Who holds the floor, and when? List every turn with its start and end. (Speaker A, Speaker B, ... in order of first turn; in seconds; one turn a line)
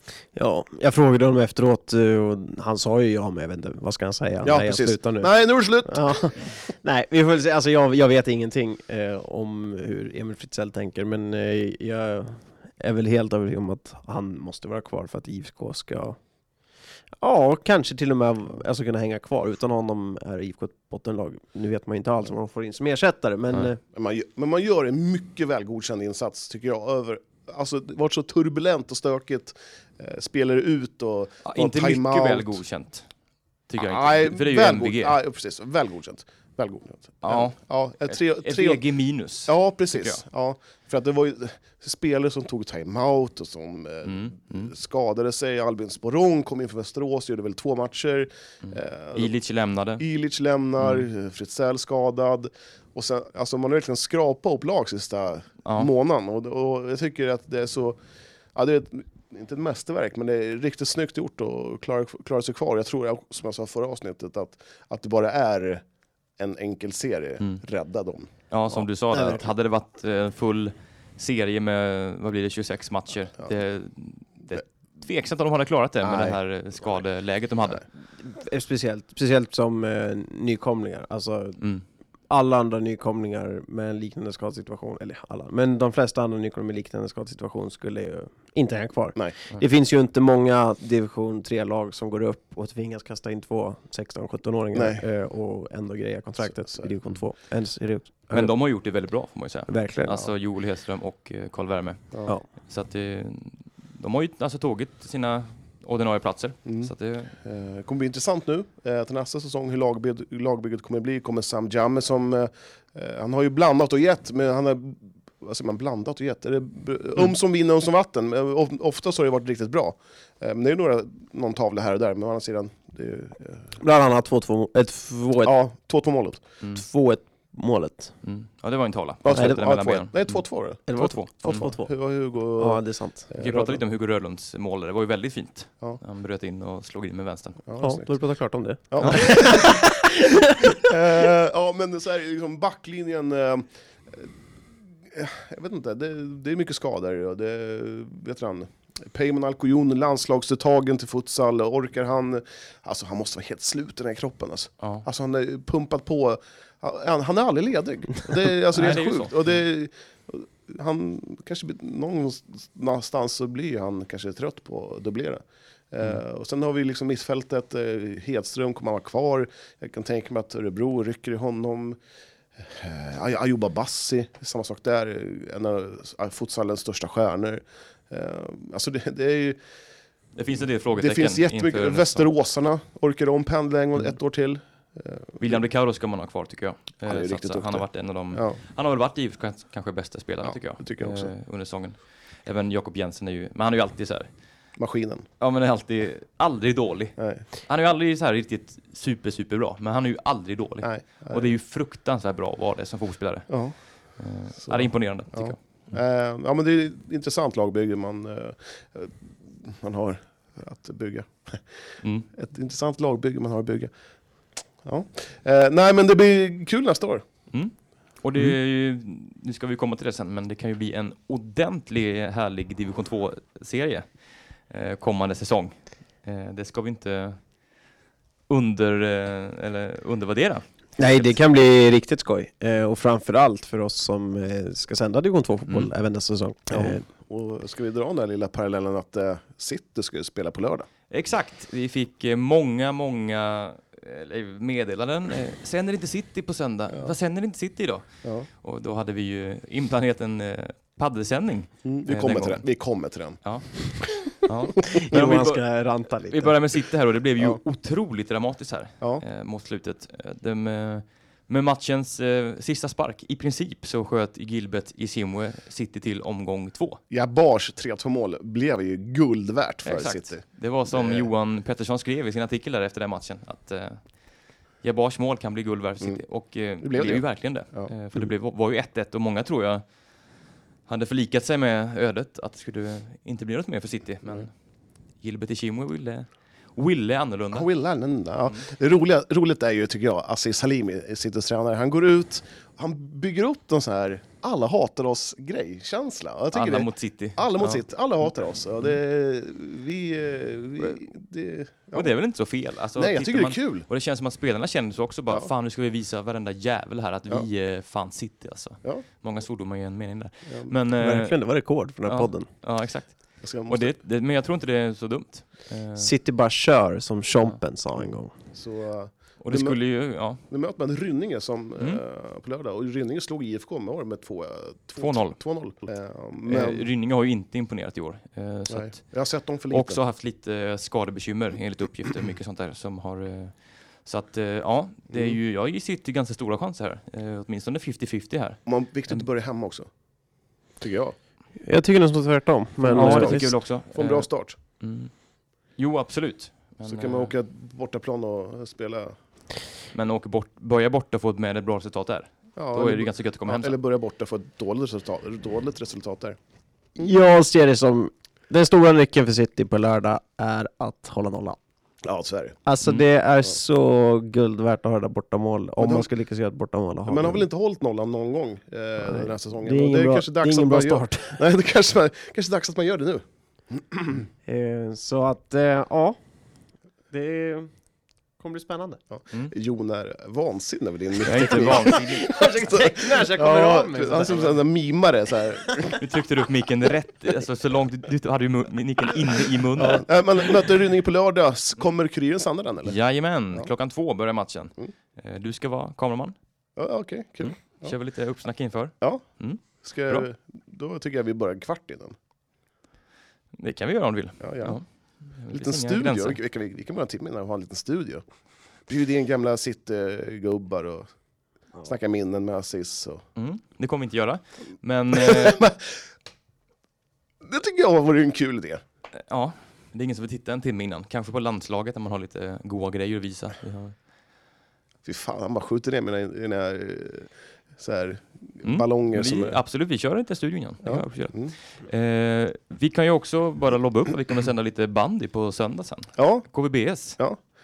Speaker A: 0.3-5.3
Speaker B: 4.4-6.4
Speaker A: 5.8-16.2
Speaker A: 17.2-23.8
Speaker B: 23.9-32.6
Speaker C: 31.4-33.1
Speaker C: 33.7-35.1
Speaker B: 33.8-38.8
Speaker C: 37.2-40.2
Speaker B: 39.4-49.3
Speaker C: 44.0-44.7
Speaker C: 48.6-50.0
Speaker B: 50.0-58.0
Speaker C: 50.8-51.0
Speaker B: 58.5-65.8
Speaker B: 66.4-69.4
Speaker C: 68.5-77.8
Speaker B: 76.0-76.4
Speaker A: 78.2-81.6
Speaker A: 82.3-98.5
Speaker B: 94.7-95.0
Speaker B: 96.4-96.9
Speaker C: 98.3-107.3
Speaker A: 99.7-100.3
Speaker B: 106.7-123.7
Speaker A: 123.8-125.5
Speaker B: 125.4-126.4
Speaker A: 126.7-128.1
Speaker C: 128.2-131.6
Speaker B: 129.2-133.8
Speaker A: 129.3-129.6
Speaker A: 130.9-131.9
Speaker A: 132.6-133.3
Speaker C: 133.4-137.6
Speaker B: 137.7-138.1
Speaker A: 137.8-140.8
Speaker B: 138.9-139.8
Speaker C: 139.0-139.3
Speaker B: 140.8-144.3
Speaker B: 145.1-172.0
Speaker C: 158.7-159.4
Speaker B: 172.6-179.6
Speaker C: 180.4-182.3
Speaker B: 180.9-185.6
Speaker C: 185.4-194.3
Speaker B: 187.1-188.6
Speaker B: 190.4-191.3
Speaker B: 194.8-195.3
Speaker C: 195.4-203.6
Speaker B: 197.2-197.4
Speaker B: 200.8-201.5
Speaker B: 203.5-203.8
Speaker C: 204.1-206.0
Speaker B: 204.6-211.6
Speaker C: 212.0-212.3
Speaker B: 212.3-213.9
Speaker B: 214.8-217.2
Speaker C: 217.5-224.1
Speaker C: 224.7-227.4
Speaker C: 228.5-231.3
Speaker A: 231.0-237.0
Speaker B: 236.7-240.9
Speaker C: 241.1-252.6
Speaker B: 251.8-253.4
Speaker C: 253.4-267.0
Speaker A: 255.0-256.6
Speaker B: 267.1-271.3
Speaker C: 269.8-274.0
Speaker C: 274.8-279.8
Speaker B: 276.8-278.3
Speaker C: 280.9-284.5
Speaker C: 285.2-287.7
Speaker B: 287.5-302.1
Speaker C: 296.5-297.8
Speaker C: 301.9-311.6
Speaker B: 302.9-303.9
Speaker B: 310.5-310.7
Speaker A: 311.0-312.5
Speaker C: 312.1-316.1
Speaker B: 313.4-313.9
Speaker A: 316.0-318.3
Speaker B: 318.5-319.8
Speaker C: 319.4-320.4
Speaker B: 320.4-326.9
Speaker C: 325.0-325.4
Speaker C: 326.5-329.1
Speaker B: 328.7-330.0
Speaker C: 329.7-339.3
Speaker B: 335.1-335.4
Speaker B: 338.6-339.9
Speaker B: 340.8-341.1
Speaker A: 341.6-343.5
Speaker B: 342.9-344.6
Speaker C: 342.9-345.1
Speaker C: 345.8-347.3
Speaker B: 346.8-349.1
Speaker C: 349.9-353.8
Speaker B: 352.6-356.4
Speaker A: 357.0-361.6
Speaker B: 362.0-362.6
Speaker A: 362.6-367.4
Speaker B: 365.8-366.1
Speaker B: 367.1-374.2
Speaker A: 369.0-371.4
Speaker A: 374.4-376.2
Speaker A: 377.1-379.0
Speaker B: 379.1-385.9
Speaker C: 381.2-382.5
Speaker A: 381.6-384.6
Speaker C: 386.0-390.1
Speaker B: 389.8-392.9
Speaker C: 392.8-396.3
Speaker B: 396.8-397.9
Speaker C: 397.4-400.3
Speaker B: 399.0-402.1
Speaker C: 403.6-406.4
Speaker B: 404.4-404.8
Speaker B: 405.5-408.2
Speaker B: 408.9-411.1
Speaker B: 411.8-413.2
Speaker C: 413.4-415.6
Speaker B: 415.1-415.8
Speaker B: 417.4-418.8
Speaker C: 419.2-423.9
Speaker B: 425.0-429.6
Speaker C: 428.6-437.2
Speaker B: 430.8-431.5
Speaker B: 436.2-436.5
Speaker B: 437.1-437.4